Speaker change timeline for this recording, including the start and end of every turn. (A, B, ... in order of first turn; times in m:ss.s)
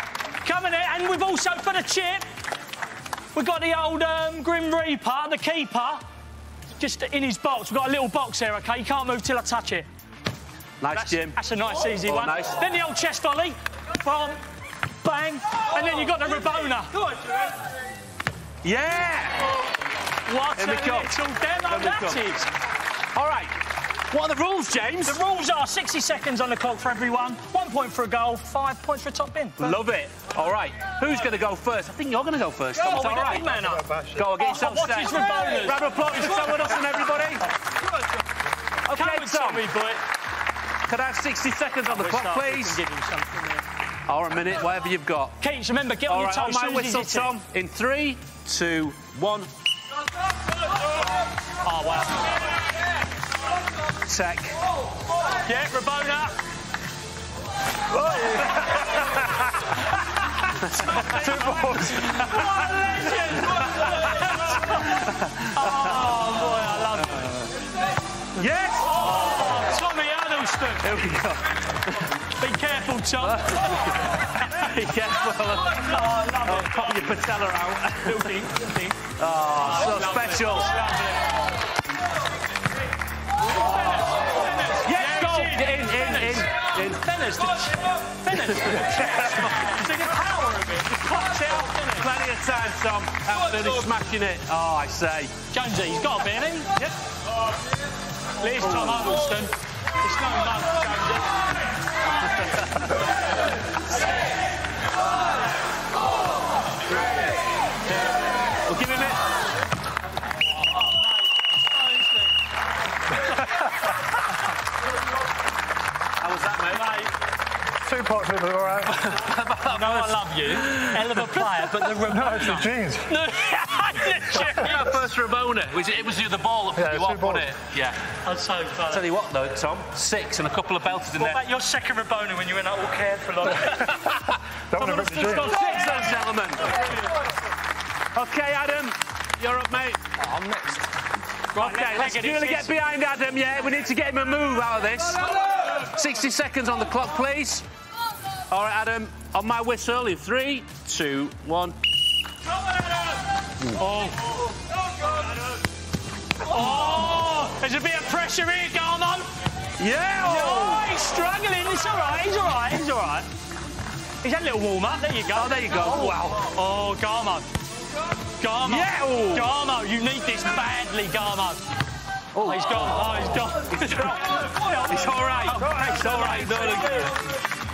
0:00.4-0:02.3 A
0:03.3-0:06.0 A
0:06.7-0:09.9 A
0:10.8-0:11.4 B
0:10.9-0:14.4 A
0:11.9-0:12.6 B
0:15.0-0:17.1 A
0:18.6-0:19.5 B
0:20.3-0:22.5 A
0:20.6-0:22.2 B
0:23.1-0:23.5 B
0:24.1-0:25.2 B
0:25.0-0:29.8 A
0:29.6-0:33.6 B
0:32.8-0:37.1 A
0:33.8-0:34.1 C
0:34.2-0:37.5 B
0:38.9-0:39.7 B
0:38.9-0:40.0 A
0:40.9-0:42.8 B
0:41.8-0:43.6 A
0:44.1-0:45.4 B
0:45.4-0:47.3 A
0:46.1-0:49.5 B
0:51.6-0:52.4 A
0:54.0-0:54.6 B
0:55.4-0:56.4 A
0:58.0-0:59.7 B
0:58.0-0:58.6 A
1:00.4-1:06.3 B
1:00.7-1:07.5 A
1:08.4-1:09.7 B
1:08.6-1:11.0 A
1:10.8-1:12.1 B
1:12.4-1:13.7 A
1:13.2-1:18.4 B
1:15.8-1:17.0 A
1:18.0-1:21.3 A
1:19.2-1:20.7 B
1:23.4-1:32.1 A
1:24.8-1:27.0 B
1:28.3-1:29.9 B
1:31.4-1:35.3 B
1:35.5-1:36.7 A
1:38.4-1:41.4 A
1:38.6-1:39.2 B
1:42.2-1:43.0 B
1:48.7-1:49.2 B
1:50.6-1:52.3 A
1:56.2-1:57.1 B
1:56.7-1:57.1 A
1:57.8-1:58.9 C
1:58.9-2:01.9 B
1:59.7-2:05.0 A
2:02.2-2:03.0 C
2:04.2-2:08.0 B
2:06.8-2:07.4 C
2:08.2-2:09.0 A
2:08.9-2:11.4 B
2:11.1-2:14.0 A
2:13.5-2:16.8 B
2:14.7-2:15.5 C
2:18.1-2:20.0 B
2:20.2-2:20.9 A
2:21.5-2:22.8 A
2:21.6-2:27.6 B
2:28.5-2:31.8 B
2:33.8-2:34.2 A
2:36.4-2:39.3 A
2:39.8-2:41.0 B
2:40.2-2:43.3 A
2:44.2-2:47.5 A
2:45.3-2:46.4 B
2:48.4-2:51.6 A
2:48.6-2:49.6 B
2:52.3-2:53.0 B
2:52.4-2:57.2 A
2:53.7-2:57.2 B